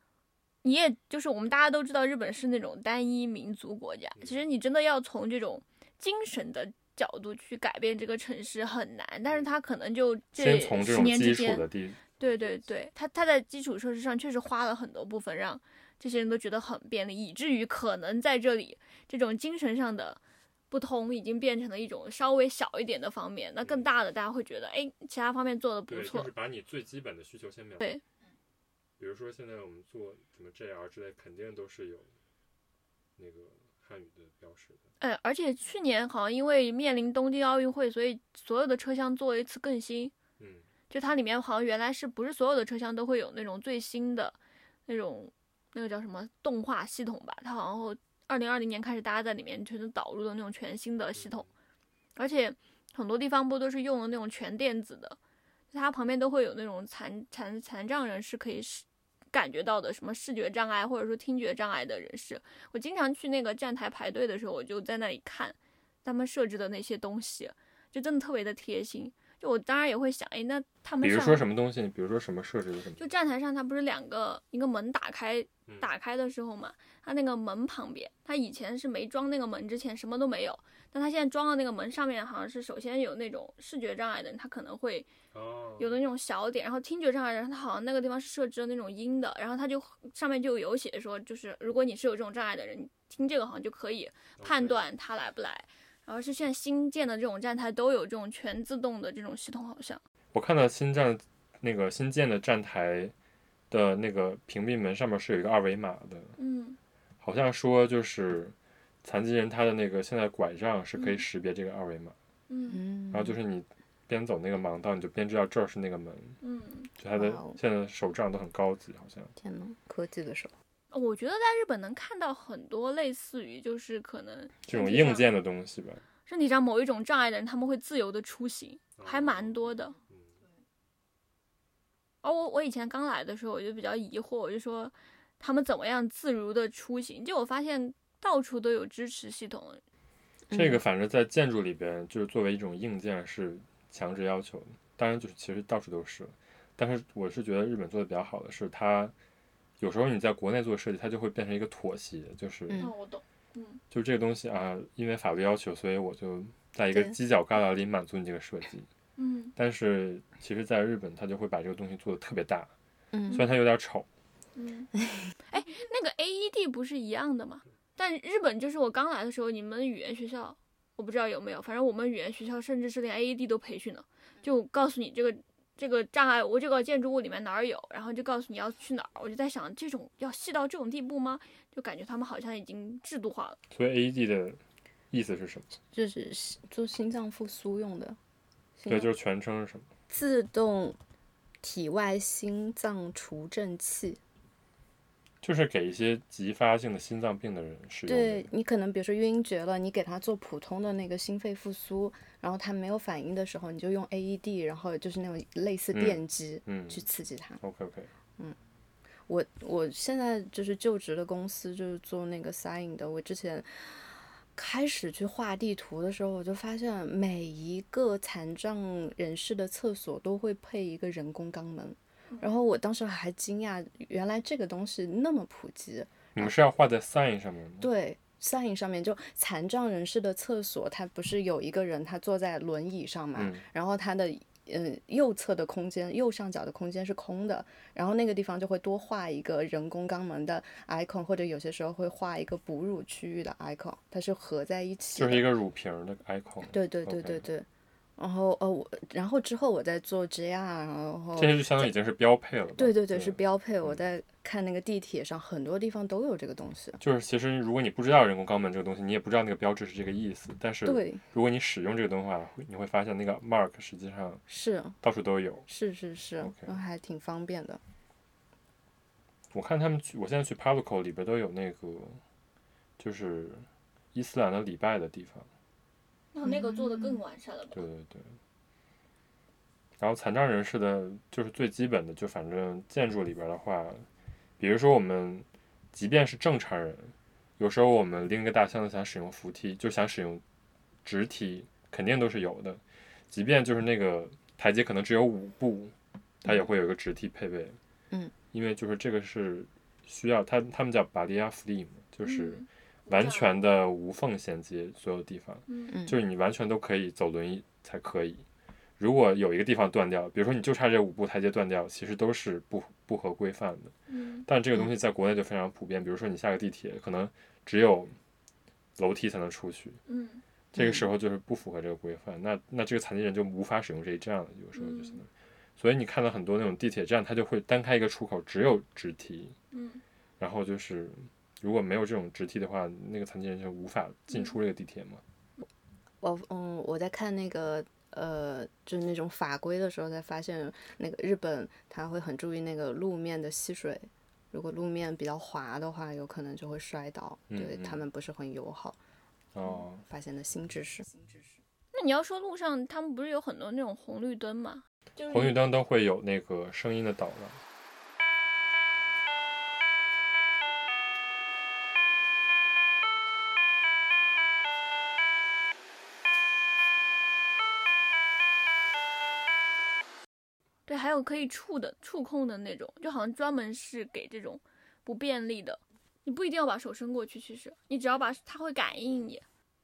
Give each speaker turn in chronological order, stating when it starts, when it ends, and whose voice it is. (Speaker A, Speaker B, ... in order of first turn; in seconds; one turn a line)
Speaker A: 0.6-11.6
Speaker B: 10.4-12.6
Speaker A: 12.2-20.2
Speaker A: 20.7-26.3
Speaker B: 23.6-23.9
Speaker B: 25.9-27.8
Speaker B: 29.0-32.1
Speaker B: 33.2-34.8
Speaker A: 35.0-40.1
Speaker B: 40.4-40.7
Speaker A: 40.9-51.5
Speaker B: 51.1-51.5
Speaker A: 52.1-55.2
Speaker A: 55.7-71.4
Speaker B: 71.0-73.1
Speaker A: 73.0-85.1
Speaker B: 85.3-86.0
Speaker A: 85.8-100.0
Speaker B: 94.4-94.8
Speaker B: 100.3-103.1
Speaker B: 103.7-106.3
Speaker A: 106.4-106.8
Speaker B: 107.2-112.1
Speaker A: 111.0-111.2
Speaker A: 112.5-112.8
Speaker C: 112.7-113.4
Speaker B: 113.1-116.4
Speaker A: 116.4-116.9
Speaker B: 117.0-119.3
Speaker C: 117.1-117.6
Speaker C: 119.4-120.5
Speaker A: 120.9-125.3
Speaker B: 124.6-126.0
Speaker A: 126.3-129.9
Speaker B: 129.0-130.4
Speaker A: 132.2-139.8
Speaker C: 140.5-140.8
Speaker B: 140.5-149.1
Speaker B: 149.8-152.8
Speaker A: 152.8-153.8
Speaker B: 153.9-158.9
Speaker C: 156.9-157.1
Speaker A: 159.2-159.5
Speaker B: 159.6-162.7
Speaker C: 163.1-163.4
Speaker B: 163.3-164.1
Speaker A: 164.6-164.9
Speaker C: 165.0-165.3
Speaker A: 165.5-183.6
Speaker B: 183.7-184.6
Speaker B: 185.1-185.7
Speaker C: 185.9-188.2
Speaker C: 188.8-189.1
Speaker B: 188.9-189.9
Speaker C: 190.1-191.0
Speaker C: 191.6-194.2
Speaker B: 195.4-198.5
Speaker C: 198.1-207.6
Speaker B: 205.9-207.0
Speaker B: 207.6-208.1
Speaker C: 209.3-226.5
Speaker B: 226.3-227.9
Speaker C: 227.8-245.5
Speaker B: 233.3-233.6
Speaker B: 245.2-247.4
Speaker C: 246.7-247.7
Speaker C: 248.2-251.9
Speaker B: 251.3-254.0
Speaker C: 252.8-257.0
Speaker B: 257.0-264.4
Speaker C: 260.8-261.2
Speaker C: 264.5-265.0
Speaker B: 265.0-265.7
Speaker C: 265.7-267.8
Speaker B: 266.4-266.8
Speaker B: 269.5-272.2
Speaker B: 273.0-275.5
Speaker A: 276.3-277.8
Speaker C: 276.4-277.2
Speaker B: 277.7-278.4
Speaker B: 280.0-284.1
Speaker B: 284.6-290.4
Speaker B: 291.0-297.8
Speaker B: 298.5-308.4
Speaker A: 302.2-303.5
Speaker A: 305.7-305.9
Speaker C: 305.9-306.2
Speaker B: 309.0-313.9
Speaker A: 314.1-314.4
Speaker B: 314.5-318.1
Speaker B: 319.0-320.0
Speaker A: 320.1-320.4
Speaker B: 320.7-329.6
Speaker C: 320.7-321.1
Speaker A: 324.7-325.2
Speaker A: 329.7-330.0
Speaker B: 330.4-335.2
Speaker A: 334.3-334.6
Speaker C: 336.2-349.0
Speaker B: 347.5-348.0
Speaker B: 349.5-350.0
Speaker C: 350.0-351.5
Speaker A: 351.9-355.5
Speaker B: 355.3-357.6
Speaker A: 370.9-379.4